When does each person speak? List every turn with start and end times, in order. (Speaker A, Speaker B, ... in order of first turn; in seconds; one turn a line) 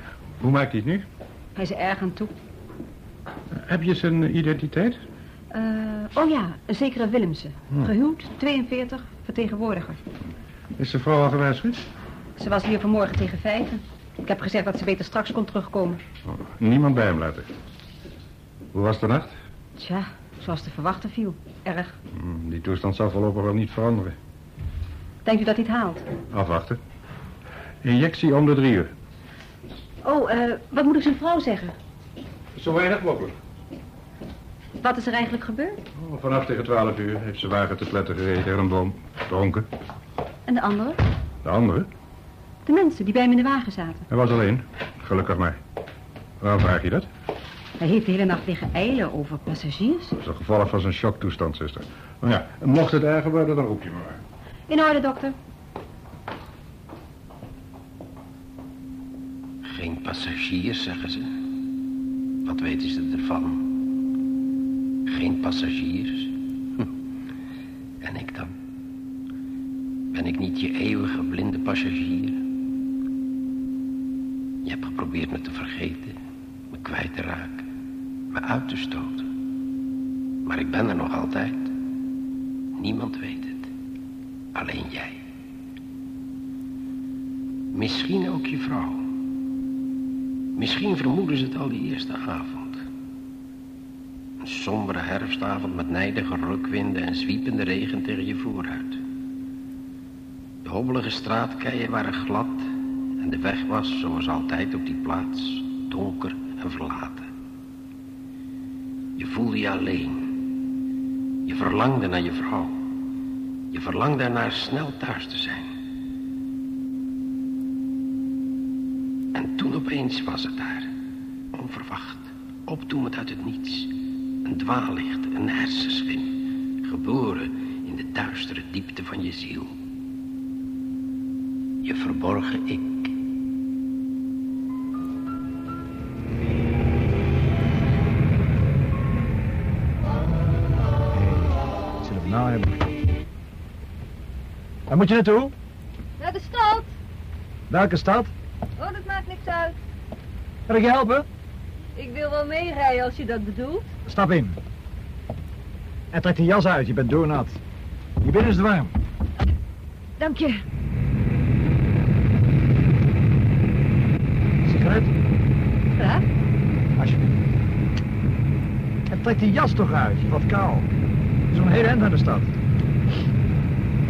Speaker A: 0.4-1.1
Speaker B: 1.6-2.3
Speaker A: 3.5-5.0
Speaker B: 5.5-10.0
Speaker A: 10.8-11.8
Speaker B: 12.4-16.0
Speaker A: 16.3-17.5
Speaker A: 18.7-19.3
Speaker B: 19.8-21.9
Speaker A: 22.1-24.1
Speaker B: 25.2-26.0
Speaker A: 26.3-26.8
Speaker A: 27.8-28.9
Speaker B: 30.0-31.7
Speaker A: 32.5-33.3
Speaker B: 34.8-35.8
Speaker A: 35.9-39.7
Speaker B: 40.5-41.0
Speaker A: 41.4-41.9
Speaker B: 42.7-44.0
Speaker A: 44.1-45.6
Speaker A: 46.4-47.1
Speaker B: 47.8-50.1
Speaker A: 50.1-54.2
Speaker B: 54.7-55.3
Speaker C: 59.6-61.3
Speaker C: 62.4-63.6
Speaker C: 65.1-66.9
Speaker C: 68.0-68.5
Speaker C: 70.1-72.4
Speaker C: 74.6-76.1
Speaker C: 76.7-77.6
Speaker C: 78.3-79.3
Speaker C: 80.4-81.7
Speaker C: 82.8-83.7
Speaker C: 84.5-85.2
Speaker C: 87.7-89.0
Speaker C: 90.5-92.8
Speaker C: 94.4-99.0
Speaker C: 100.6-102.6
Speaker C: 103.2-107.3
Speaker C: 109.2-110.3
Speaker C: 111.5-112.8
Speaker C: 113.7-115.7
Speaker C: 119.3-120.9
Speaker C: 121.5-123.9
Speaker C: 124.4-126.3
Speaker C: 126.8-129.7
Speaker C: 131.8-133.1
Speaker D: 141.1-142.9
Speaker D: 144.9-145.5
Speaker E: 146.2-146.9
Speaker D: 147.7-148.3
Speaker E: 148.8-149.8
Speaker D: 150.7-151.2
Speaker E: 151.9-153.9
Speaker D: 154.0-154.6
Speaker D: 156.1-157.6
Speaker D: 158.2-158.9
Speaker E: 160.2-160.6
Speaker D: 164.6-165.1
Speaker E: 165.9-166.2
Speaker D: 167.0-167.3
Speaker D: 169.1-170.9
Speaker D: 171.5-172.5